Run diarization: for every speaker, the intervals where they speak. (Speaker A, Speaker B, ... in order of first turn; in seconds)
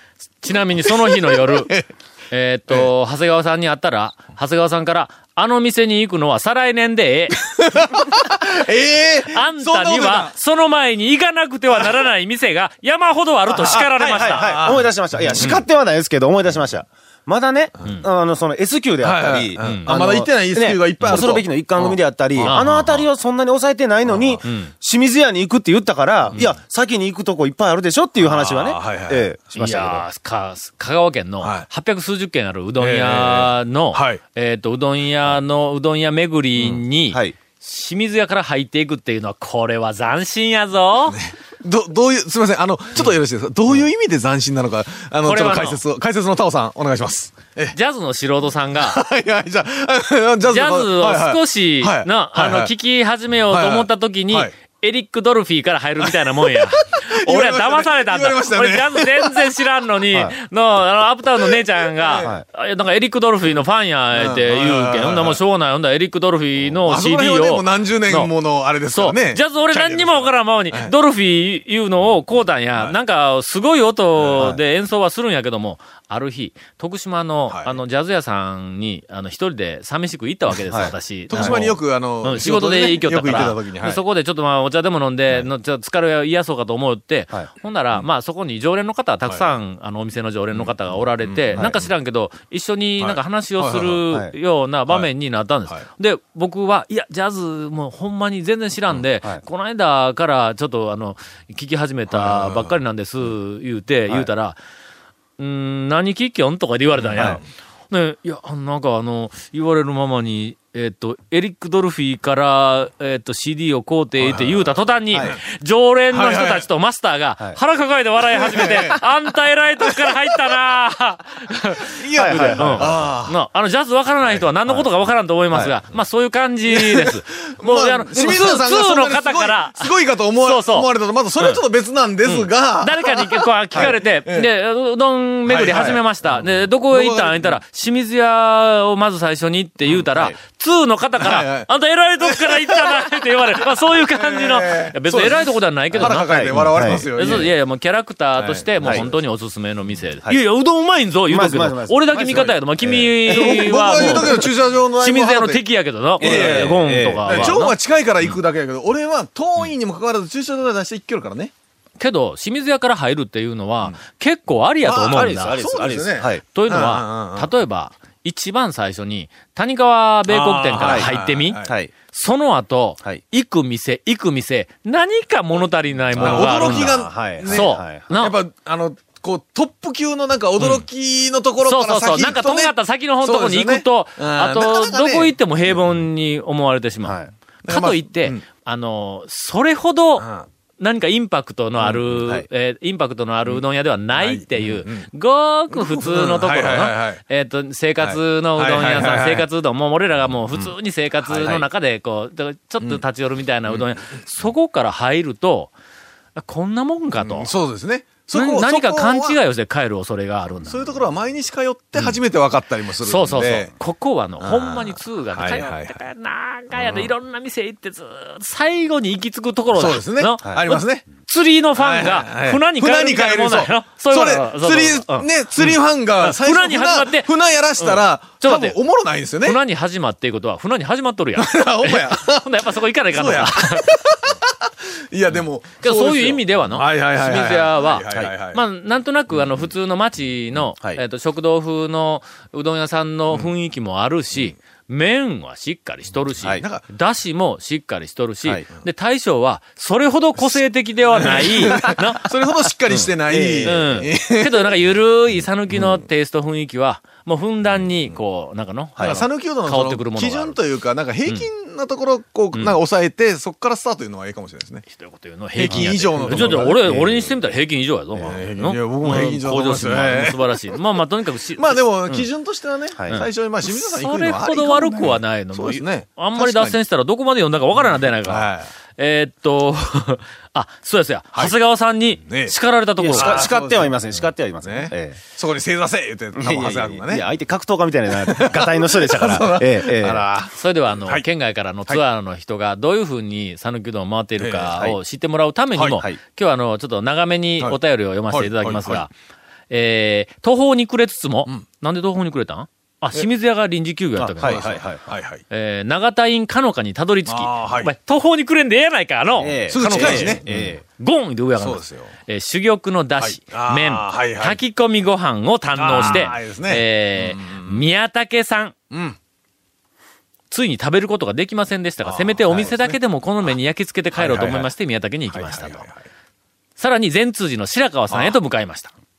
Speaker A: 0.4-1.7, 2.3-7.4, 9.3-14.7, 19.6-19.9, 22.4-23.1, 24.4-24.7, 29.6-41.2, 45.2-45.8, 47.7-49.0, 50.4-68.3, 68.9-104.6, 105.4-131.6, 132.2-157.7, 162.0-165.6, 166.5-178.4, 181.6-190.3, 190.8-205.7, 206.3-207.5, 208.3-210.9, 213.0-228.8, 229.4-234.0, 235.8-252.3, 252.9-253.1, 253.6-260.6, 264.9-272.2, 273.1-283.5, 290.5-299.1, 299.7-304.8, 305.5-318.7, 320.5-325.9, 326.8-328.9
Speaker B: 0.8-1.9, 7.4-10.3, 13.6-15.6, 19.0-22.6, 24.1-24.4, 28.2-29.3, 31.4-31.7, 32.8-34.2, 36.5-36.8, 41.1-47.8, 48.7-52.7, 53.5-54.5, 56.0-59.5, 61.4-62.3, 64.1-65.4, 66.8-70.9, 74.1-74.5, 77.5-77.8, 81.3-84.0, 90.5-91.9, 93.0-94.0, 102.1-102.8, 107.0-107.4, 114.2-114.7, 116.1-116.7, 118.2-119.0, 119.8-120.5, 121.8-123.4, 126.7-134.5, 135.4-137.6, 141.2-143.1, 143.9-147.5, 148.4-149.2, 153.2-155.6, 156.2-161.5, 164.8-167.5, 170.3-171.7, 176.1-185.8, 187.6-188.4, 190.2-190.5, 191.8-192.3, 194.1-195.1, 195.7-197.2, 198.0-199.5, 207.1-209.4, 210.6-213.7, 214.4-216.0, 216.7-217.1, 219.7-221.0, 221.7-229.6, 231.3-238.6, 246.5-246.8, 251.1-254.7, 255.7-256.0, 259.0-264.8, 265.5-267.4, 268.2-270.4, 271.6-276.8, 277.9-278.7, 282.2-282.5, 283.1-284.0, 284.6-287.2, 288.1-291.2, 294.4-294.8, 295.8-296.0, 298.3-299.0, 304.4-305.4, 307.3-307.9, 309.7-310.4, 311.6-312.1, 313.2-314.6, 315.8-317.9, 318.9-319.2, 322.0-322.9, 324.1-324.7, 325.3-326.0, 328.1-328.4
Speaker C: 13.5-30.0, 80.7-81.6, 122.2-123.0, 145.9-147.4, 151.3-154.4, 156.2-157.6, 165.1-166.4, 170.8-171.1, 171.6-171.9, 176.1-178.0, 187.0-187.3, 201.3-201.6, 253.3-254.1, 265.6-266.5, 283.0-285.2, 286.3-290.3, 304.2-305.0, 309.4-310.8